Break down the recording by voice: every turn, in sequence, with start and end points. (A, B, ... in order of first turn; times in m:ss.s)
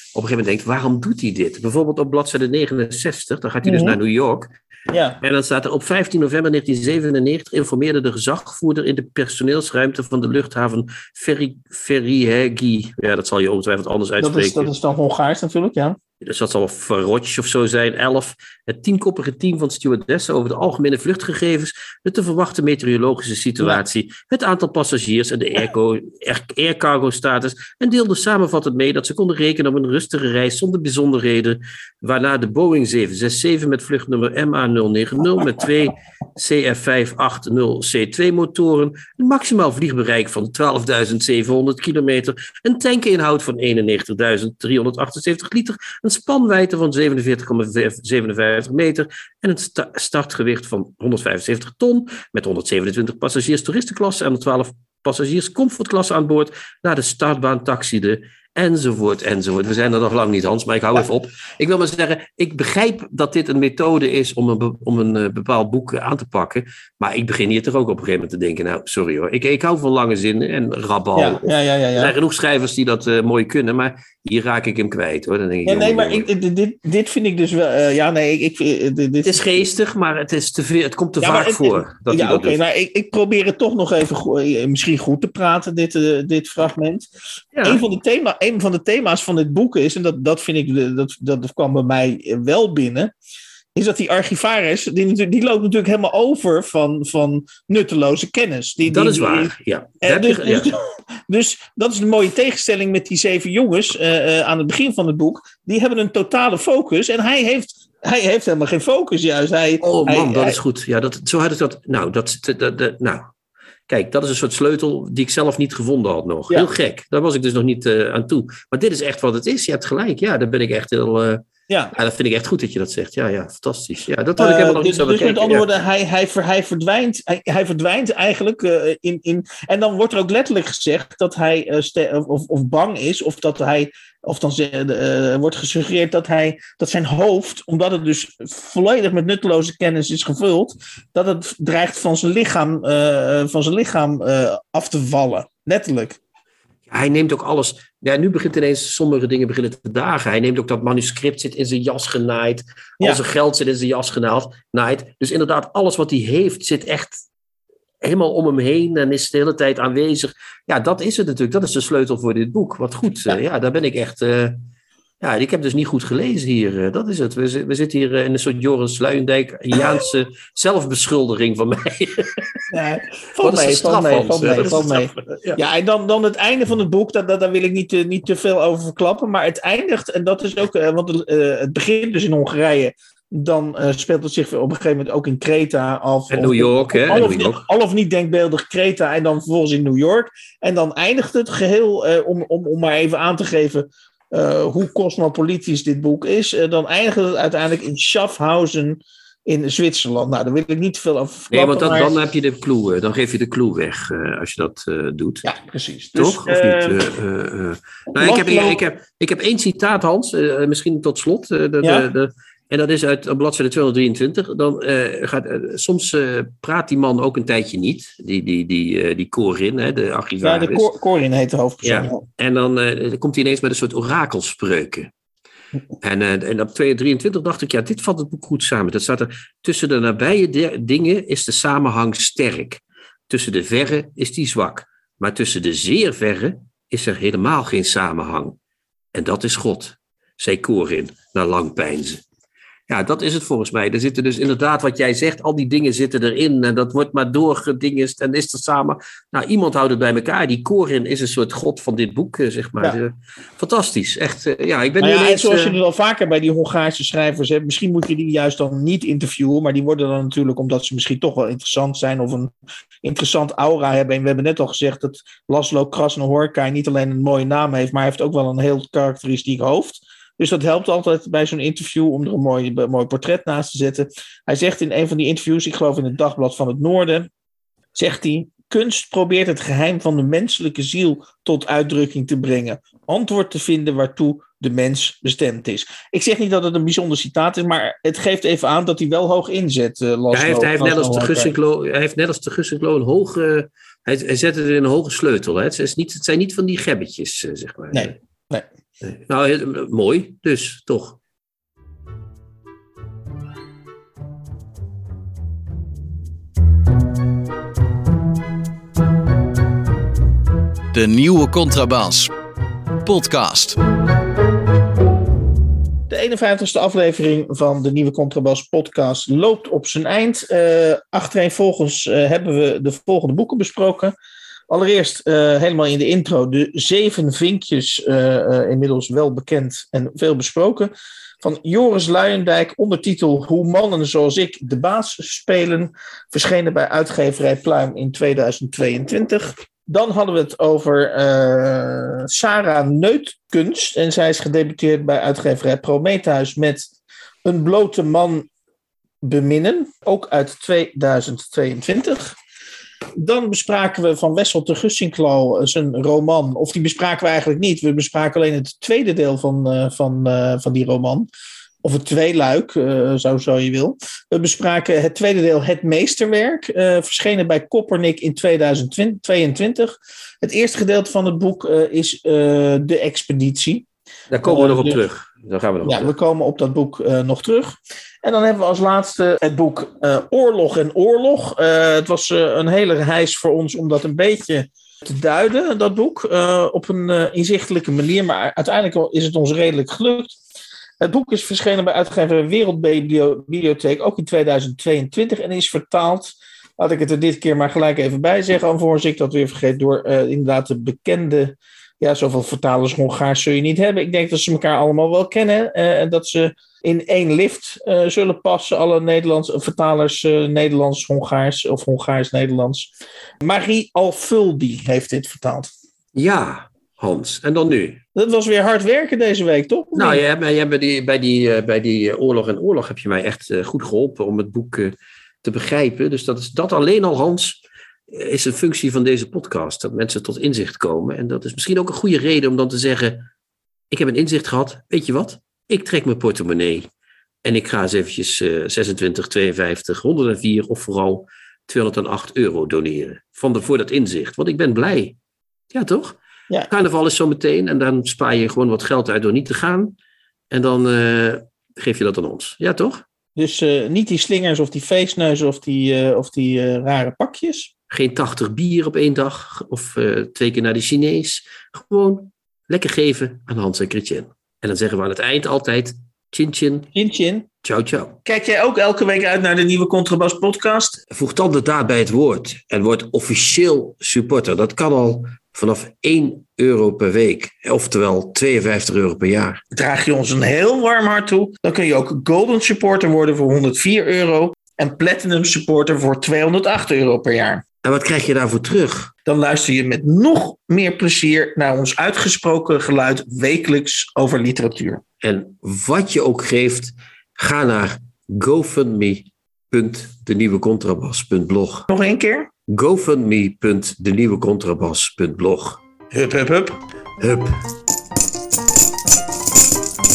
0:00.1-0:04.5 A
0:03.6-0:04.0 B
0:04.9-0:05.2 B
0:05.2-0:14.7 A
0:14.2-0:16.0 B
0:16.2-1:16.3 A
1:11.1-1:12.1 B
1:15.6-1:19.6 B
1:19.2-1:22.6 A
1:21.2-1:27.1 B
1:27.5-1:27.8 A
1:27.6-1:33.1 B
1:33.7-1:50.6 B
1:38.8-1:40.7 A
1:49.8-1:53.2 A
1:53.9-2:05.7 A
2:04.4-2:26.2 B
2:26.9-2:37.2 A
2:38.0-2:44.6 A
2:45.2-2:52.6 A
2:52.7-3:22.1 B
2:53.4-2:55.6 A
3:06.3-3:07.6 A
3:21.5-3:25.4 A
3:25.4-3:27.0 B
3:26.2-3:40.9 A
3:28.2-3:28.8 B
3:31.8-3:32.1 B
3:40.4-3:42.2 B
3:41.8-3:45.1 A
3:46.0-3:58.5 A
3:59.1-4:02.2 A
4:02.9-4:15.8 A
4:15.0-4:22.5 B
4:23.0-4:37.3 B
4:37.9-4:51.5 B
4:50.3-4:58.1 A
4:57.9-4:58.6 B
4:59.0-5:01.2 A
5:10.9-5:12.3 C
5:13.0-5:13.8 C
5:16.1-5:24.1 B
5:24.7-5:48.5 B
5:49.2-5:52.3 B
5:53.2-6:01.3 B
6:01.8-6:13.8 B
6:14.3-6:16.1 A
6:14.4-6:15.0 B
6:15.8-6:30.4 B
6:31.0-6:52.9 B
6:53.4-6:55.7 B
6:56.1-6:58.0 A
6:58.1-7:00.2 B
6:59.9-7:13.2 A
7:13.9-7:16.9 A
7:17.4-7:25.2 A
7:25.7-7:26.2 A
7:26.7-7:29.9 A
7:30.5-7:33.0 A
7:33.4-7:37.7 B
7:37.9-7:46.9 A
7:46.9-7:47.4 B
7:47.6-7:48.2 A
7:48.2-7:51.0 B
7:51.1-7:59.6 A
7:59.7-8:07.6 B
8:07.8-8:09.1 A
8:09.2-8:15.0 B
8:15.2-8:21.9 A
8:21.9-8:22.5 B
8:22.7-8:25.8 A
8:26.1-8:26.8 B
8:27.2-8:27.5 A